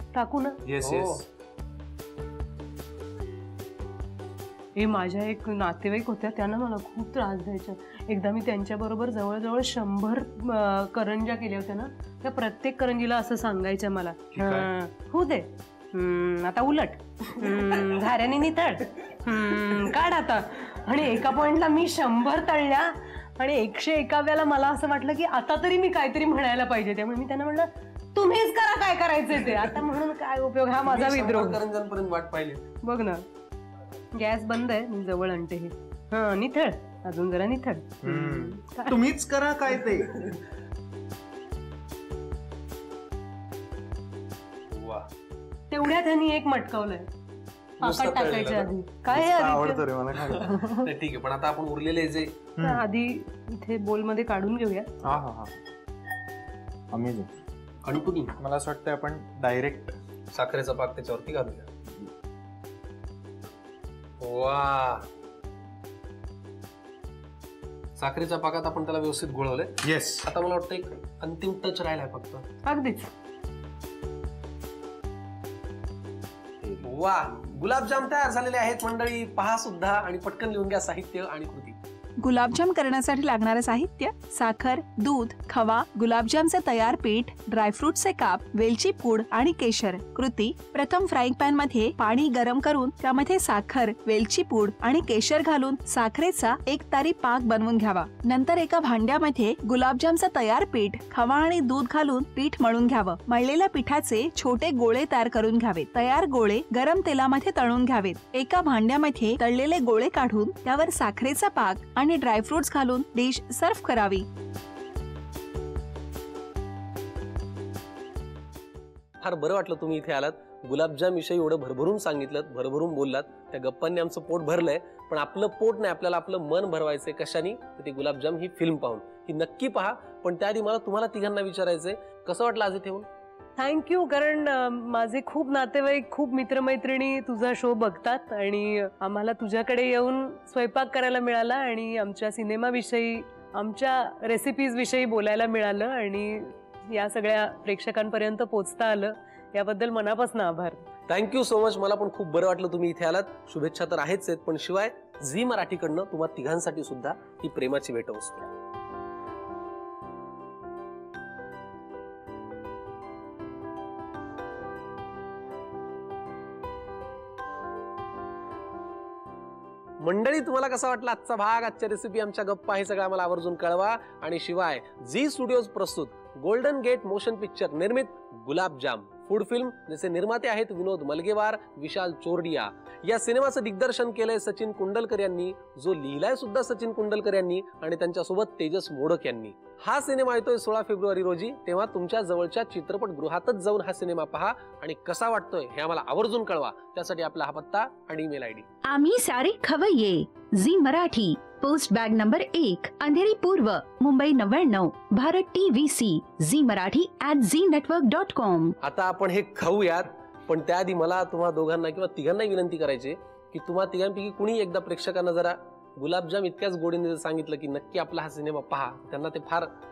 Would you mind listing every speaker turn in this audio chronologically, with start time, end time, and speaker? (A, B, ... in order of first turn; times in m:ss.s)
0:00.1-0:00.6 A
0:00.6-0:01.2 B
0:00.8-0:01.2 C
0:04.8-0:31.6 A
0:14.3-0:14.7 B
0:30.8-0:32.6 C
0:32.8-0:33.2 A
0:34.1-0:39.0 A
0:38.0-0:40.1 B
0:44.7-0:45.1 C
0:45.7-0:47.1 A
0:47.8-0:48.7 C
0:47.8-0:49.8 A
0:49.1-0:50.7 B
0:50.2-0:52.4 C
0:52.6-0:52.8 B
0:52.6-0:54.9 A
0:55.0-0:55.6 B
0:56.9-0:57.3 B
0:57.8-0:58.4 C
0:58.4-1:00.0 B
1:00.3-1:01.7 C
1:04.2-1:05.1 C
1:08.0-1:12.5 C
1:09.8-1:10.3 B
1:12.6-1:13.1 A
1:16.8-1:21.8 C
1:22.2-1:54.2 D
1:59.2-2:13.1 C
2:13.6-2:30.8 A
2:31.1-2:38.5 C
2:50.0-3:18.7 C
3:18.8-3:28.7 E
3:28.8-3:39.7 C